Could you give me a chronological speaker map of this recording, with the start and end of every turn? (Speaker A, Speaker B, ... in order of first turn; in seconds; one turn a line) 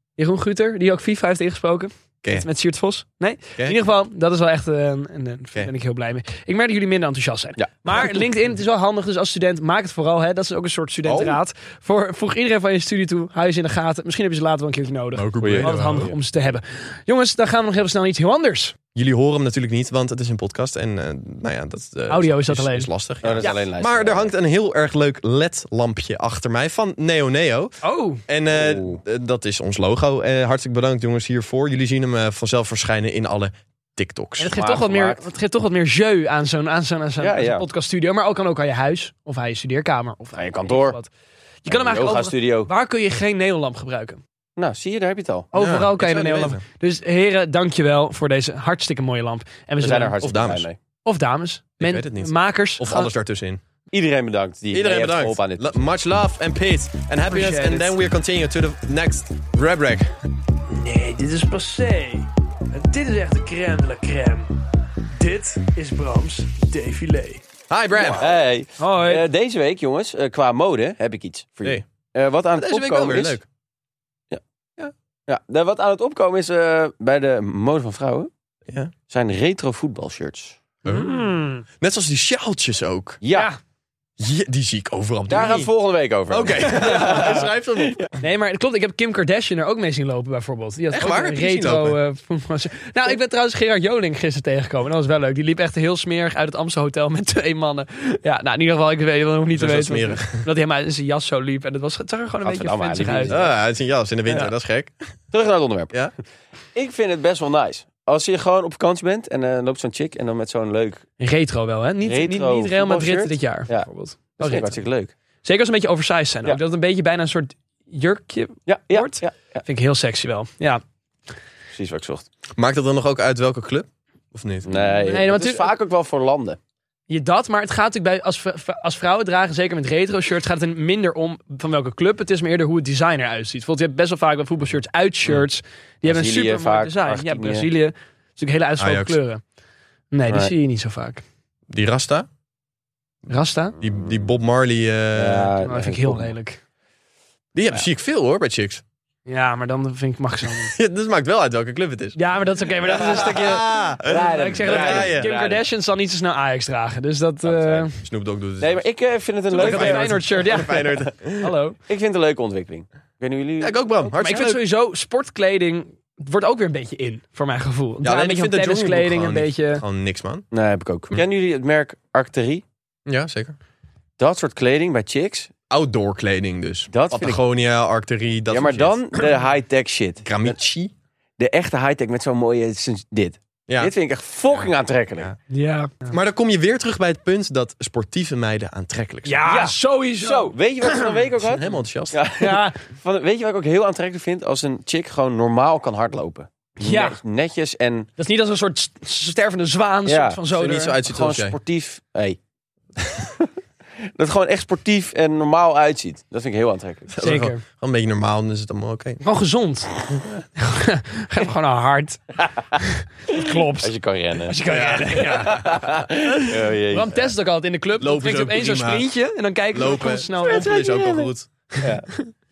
Speaker A: 0.2-18.7
Speaker B: 7.6-8.2
Speaker C: 11.0-11.4
Speaker C: 15.1-16.1
Speaker B: 15.4-16.1
Speaker C: 18.9-27.7
Speaker A: 22.1-22.9
Speaker B: 23.2-24.3
Speaker A: 27.8-28.2
Speaker C: 28.3-34.5
Speaker B: 28.5-29.0
Speaker A: 34.4-41.1
Speaker B: 34.5-35.3
Speaker B: 37.2-37.7
Speaker B: 40.3-41.0
Speaker A: 41.6-44.2
Speaker B: 41.7-42.7
Speaker B: 44.6-45.5
Speaker A: 45.5-50.1
Speaker C: 45.5-46.6
Speaker B: 49.8-50.8
Speaker C: 50.2-50.6
Speaker A: 51.0-53.1
Speaker C: 51.8-53.6
Speaker B: 53.9-55.8
Speaker C: 54.7-60.1
Speaker A: 57.3-57.9
Speaker A: 60.7-67.4
Speaker C: 67.7-68.3
Speaker B: 68.2-73.4
Speaker A: 68.8-69.2
Speaker C: 72.5-73.4
Speaker B: 75.3-78.3
Speaker B: 79.1-80.6
Speaker C: 80.8-83.2
Speaker A: 80.8-81.6
Speaker B: 83.2-83.5
Speaker A: 83.3-83.6
Speaker C: 84.2-85.7
Speaker B: 85.3-88.1
Speaker C: 86.3-88.1
Speaker A: 86.7-87.5
Speaker A: 88.2-103.4
Speaker C: 90.9-92.0
Speaker C: 99.5-100.5
Speaker B: 102.4-103.5
Speaker C: 103.3-104.9
Speaker B: 105.3-105.9
Speaker B: 106.7-111.0
Speaker A: 111.2-114.8
Speaker B: 112.0-113.9
Speaker B: 114.4-115.1
Speaker A: 115.4-120.8
Speaker B: 118.7-119.6
Speaker B: 121.7-122.3
Speaker C: 122.6-124.8
Speaker B: 124.6-126.6
Speaker A: 125.0-125.7
Speaker A: 127.1-139.4
Speaker B: 136.0-137.7
Speaker C: 138.8-139.2
Speaker A: 140.1-141.2
Speaker B: 140.3-140.5
Speaker C: 141.7-142.3
Speaker A: 143.3-143.8
Speaker C: 143.8-145.5
Speaker B: 145.1-146.3
Speaker A: 145.6-146.6
Speaker C: 147.5-148.8
Speaker A: 149.2-150.8
Speaker C: 150.7-152.2
Speaker A: 152.2-158.0
Speaker C: 152.8-155.3
Speaker B: 154.0-155.6
Speaker C: 157.4-158.8
Speaker B: 158.6-160.7
Speaker A: 159.5-161.8
Speaker C: 159.5-161.5
Speaker B: 161.9-164.4
Speaker C: 163.6-164.6
Speaker A: 164.2-169.8
Speaker C: 168.0-170.4
Speaker B: 170.5-172.6
Speaker C: 173.1-173.6
Speaker B: 174.2-175.5
Speaker C: 175.7-179.0
Speaker B: 176.9-177.4
Speaker B: 178.5-180.6
Speaker C: 180.2-180.9
Speaker B: 181.4-185.3
Speaker A: 185.5-186.1
Speaker C: 186.1-189.5
Speaker A: 189.2-191.1
Speaker B: 189.4-198.1
Speaker C: 191.5-192.2
Speaker A: 192.4-192.8
Speaker A: 196.8-197.2
Speaker A: 198.2-201.0
Speaker B: 200.0-200.4
Speaker C: 200.5-201.6
Speaker B: 201.0-202.4
Speaker B: 204.0-207.1
Speaker C: 207.1-209.2
Speaker A: 207.2-207.6
Speaker A: 209.2-210.0
Speaker A: 210.6-215.8
Speaker B: 212.5-214.6
Speaker C: 214.7-216.3
Speaker B: 215.2-217.3
Speaker A: 216.9-220.8
Speaker C: 218.0-219.1
Speaker C: 219.7-221.5
Speaker B: 220.4-222.1
Speaker A: 221.8-222.3